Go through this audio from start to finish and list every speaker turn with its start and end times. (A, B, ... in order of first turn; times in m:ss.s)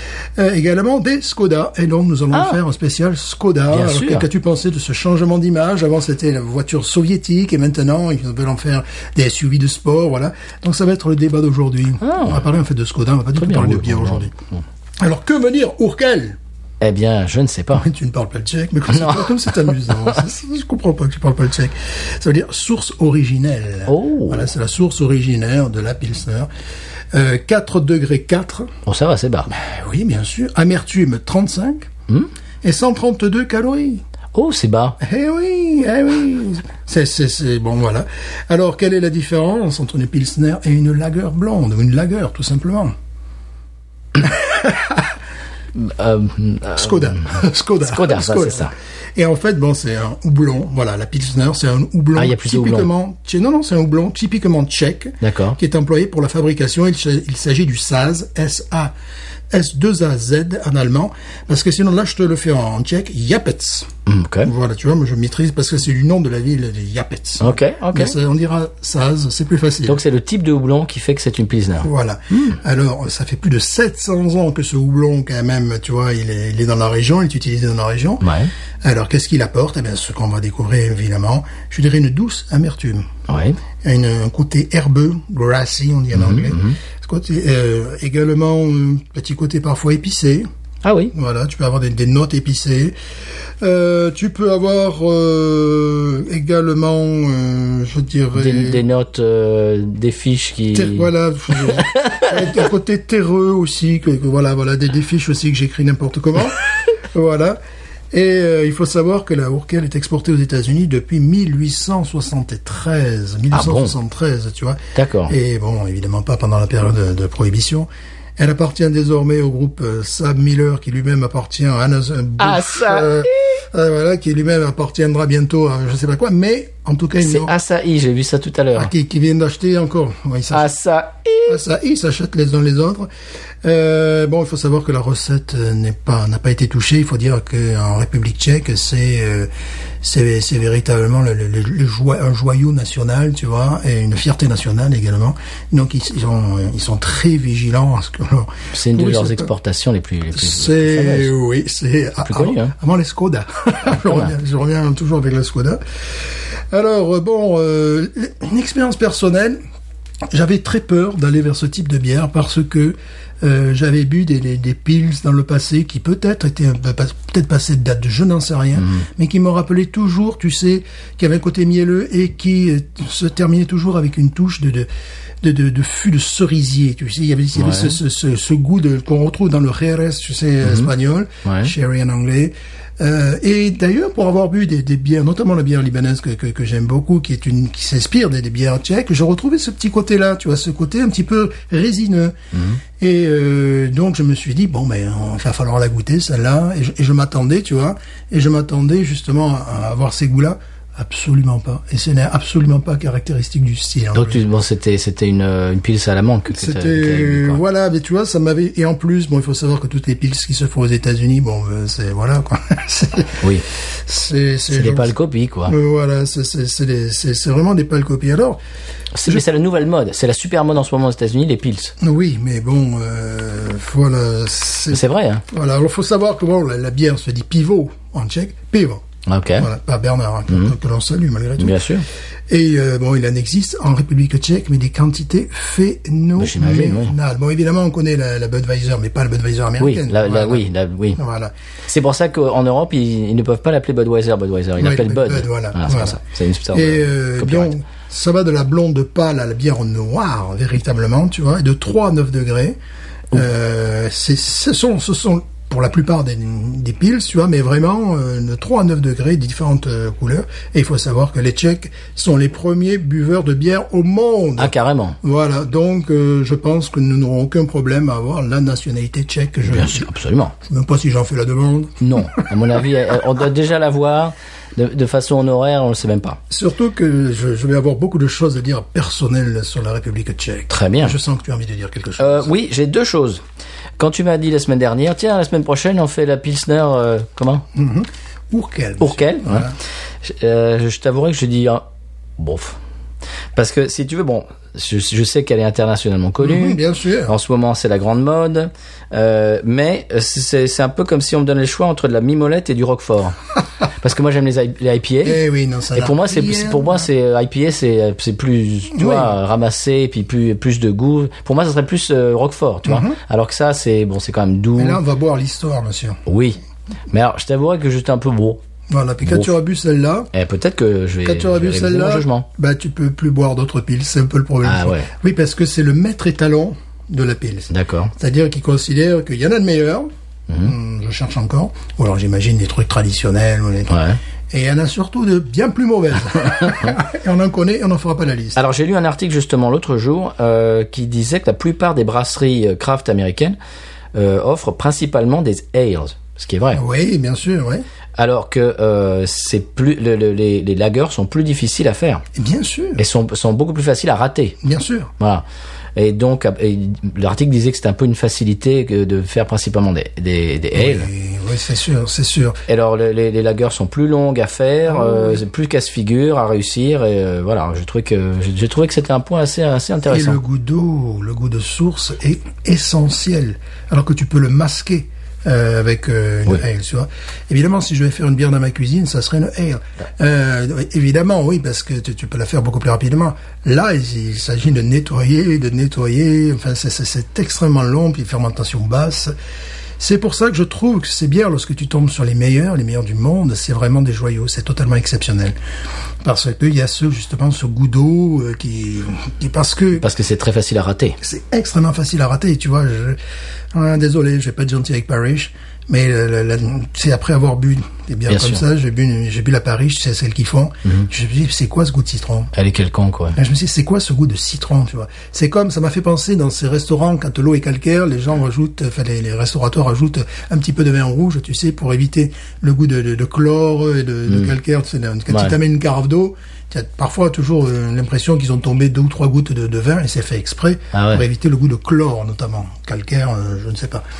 0:00.4-0:14.3 A
0:02.3-0:02.6 B
0:03.7-0:04.3 B
0:12.0-0:12.5 B
0:13.3-0:14.6 B
0:15.0-0:16.4 A
0:16.8-0:17.8 B
0:17.7-0:26.5 A
0:18.9-0:20.2 B
0:23.9-0:24.5 B
0:27.1-0:28.7 A
0:28.8-0:29.5 B
0:29.5-0:31.9 A
0:32.6-0:34.0 A
0:34.3-0:35.0 B
0:35.0-0:42.9 A
0:44.2-0:45.2 A
0:45.7-0:48.7 B
0:46.8-0:58.9 A
0:52.1-0:52.9 B
0:55.2-0:55.6 B
0:59.5-1:03.9 A
1:04.0-1:04.5 B
1:04.4-1:10.0 A
1:07.4-1:08.1 B
1:09.8-1:12.6 B
1:11.8-1:18.3 A
1:18.2-1:18.5 B
1:18.8-1:23.1 A
1:23.3-1:23.6 B
1:23.8-1:30.5 A
1:26.1-1:26.8 B
1:30.8-1:31.1 B
1:31.1-1:33.0 A
1:33.6-1:38.8 A
1:38.3-1:42.3 B
1:40.7-1:47.6 A
1:48.1-2:07.5 A
1:53.5-1:53.9 B
1:54.9-1:55.3 B
2:02.4-2:03.6 B
2:07.2-2:08.9 B
2:08.7-2:10.7 A
2:10.5-2:11.6 B
2:11.5-2:13.1 A
2:13.6-2:19.5 A
2:20.0-2:29.5 A
2:28.7-2:31.3 B
2:30.3-2:39.6 A
2:32.2-2:32.7 B
2:40.3-2:54.9 A
2:48.8-2:49.1 B
2:55.4-3:12.3 A
2:57.5-2:58.0 B
3:00.6-3:00.9 B
3:01.4-3:01.7 B
3:12.5-3:12.8 B
3:13.0-3:24.4 A
3:24.1-3:27.6 B
3:26.5-3:35.1 A
3:34.7-3:35.7 B
3:35.7-3:38.6 A
3:39.1-3:41.9 B
3:42.0-3:49.0 A
3:44.9-3:45.4 B
3:49.2-3:49.7 B
3:49.6-3:51.8 A
3:51.6-3:52.0 B
3:52.5-4:01.5 A
3:56.4-3:57.1 B
3:59.8-4:01.2 B
4:01.9-4:07.7 B
4:04.8-4:06.2 A
4:06.7-4:12.8 A
4:13.3-4:30.1 A
4:24.6-4:25.2 B
4:29.6-4:30.5 B
4:30.6-4:32.4 A
4:32.0-4:36.4 B
4:36.5-4:42.5 A
4:40.7-4:41.2 B
4:42.2-4:43.4 B
4:44.0-4:47.6 B
4:47.7-4:49.7 A
4:49.0-4:51.8 B
4:52.4-4:52.8 B
4:53.5-5:03.4 B
4:56.4-4:57.3 A
5:04.0-5:05.4 B
5:05.2-5:07.1 A
5:05.9-5:15.0 B
5:08.9-5:09.4 A
5:12.8-5:13.2 A
5:14.8-5:16.2 A
5:16.2-5:16.6 B
5:17.1-5:18.6 B
5:18.9-5:20.3 A
5:19.2-5:19.5 B
5:20.3-5:22.5 B
5:21.2-5:30.1 A
5:24.6-5:25.1 B
5:27.7-5:28.1 B
5:30.6-5:38.6 A
5:33.9-5:34.2 B
5:38.5-5:43.6 B
5:44.1-5:46.8 B
5:46.7-5:47.8 A
5:48.2-5:52.2 B
5:52.3-5:53.0 A
5:53.0-5:54.6 B
5:54.6-5:55.1 A
5:55.2-5:55.4 B
5:56.0-6:01.1 B
6:00.7-6:02.6 A
6:02.7-6:10.4 B
6:04.9-6:05.4 A
6:10.1-6:29.3 A
6:30.0-6:35.6 A
6:36.2-6:40.0 A
6:40.0-6:41.2 B
6:41.2-6:43.2 A
6:43.7-6:52.5 A
6:48.3-6:48.6 B
6:52.5-6:53.4 B
6:53.4-7:14.0 A
7:05.3-7:05.5 B
7:10.9-7:11.2 B